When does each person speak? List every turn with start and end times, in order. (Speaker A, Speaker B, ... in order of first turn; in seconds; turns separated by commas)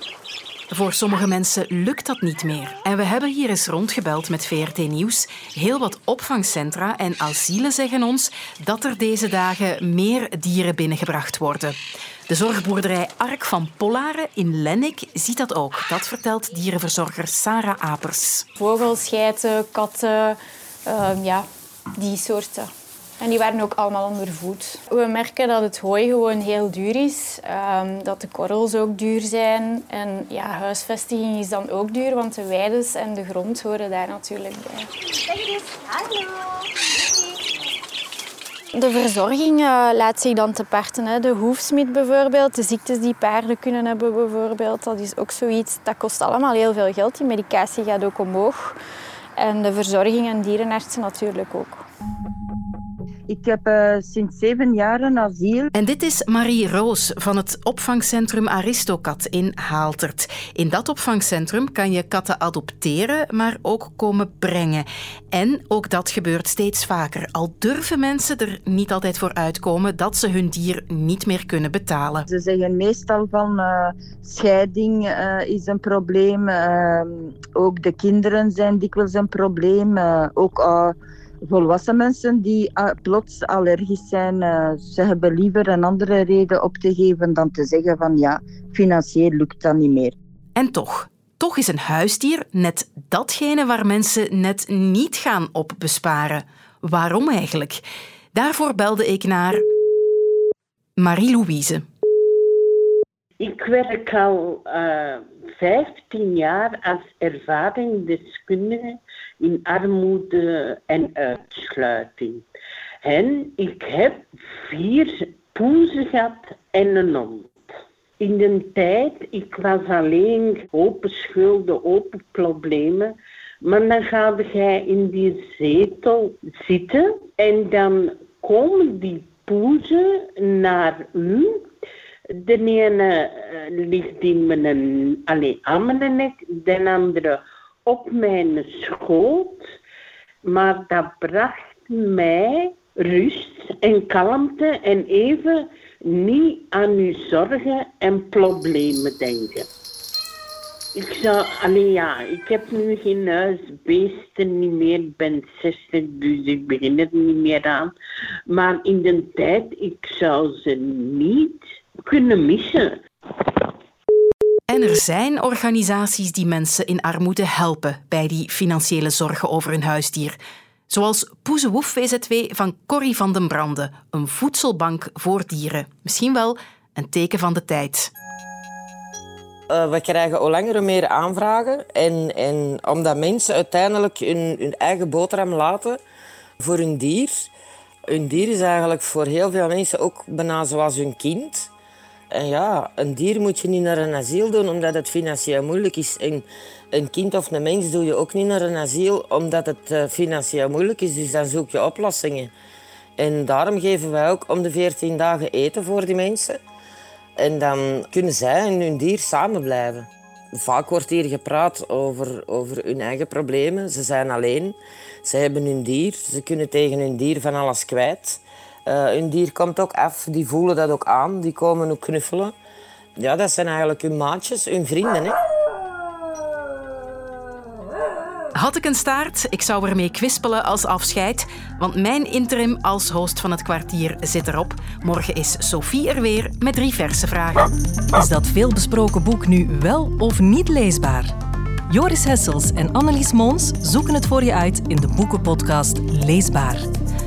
Speaker A: 0.7-11.8, Speaker A: 12.3-18.5, Speaker B: 18.6-34.9, Speaker B: 38.7-48.8, Speaker B: 49.4-51.8, Speaker C: 53.3-55.7, Speaker A: 55.7-72.2, Speaker C: 72.3-80.9, Speaker C: 81.5-90.1, Speaker A: 90.5-99.6, Speaker A: 101.0-101.8, Speaker D: 103.4-104.3, Speaker D: 104.8-108.8, Speaker D: 109.4-112.4, Speaker D: 113.0-114.1, Speaker D: 114.8-115.1, Speaker D: 115.6-117.5, Speaker D: 118.2-123.0, Speaker D: 123.7-130.0, Speaker D: 130.5-131.4, Speaker D: 132.5-133.0, Speaker D: 133.9-134.8, Speaker D: 135.3-139.5, Speaker D: 140.5-145.6, Speaker D: 146.2-149.7, Speaker D: 151.0-157.9, Speaker D: 158.5-161.6, Speaker D: 162.1-162.9, Speaker A: 164.7-170.4, Speaker A: 170.9-178.1, Speaker E: 179.7-186.0, Speaker E: 186.6-187.5, Speaker E: 188.1-191.7, Speaker E: 192.3-202.5, Speaker E: 203.2-206.6, Speaker E: 207.4-222.5, Speaker E: 223.2-225.4, Speaker A: 228.5-237.7, Speaker F: 238.2-241.3, Speaker F: 241.9-246.9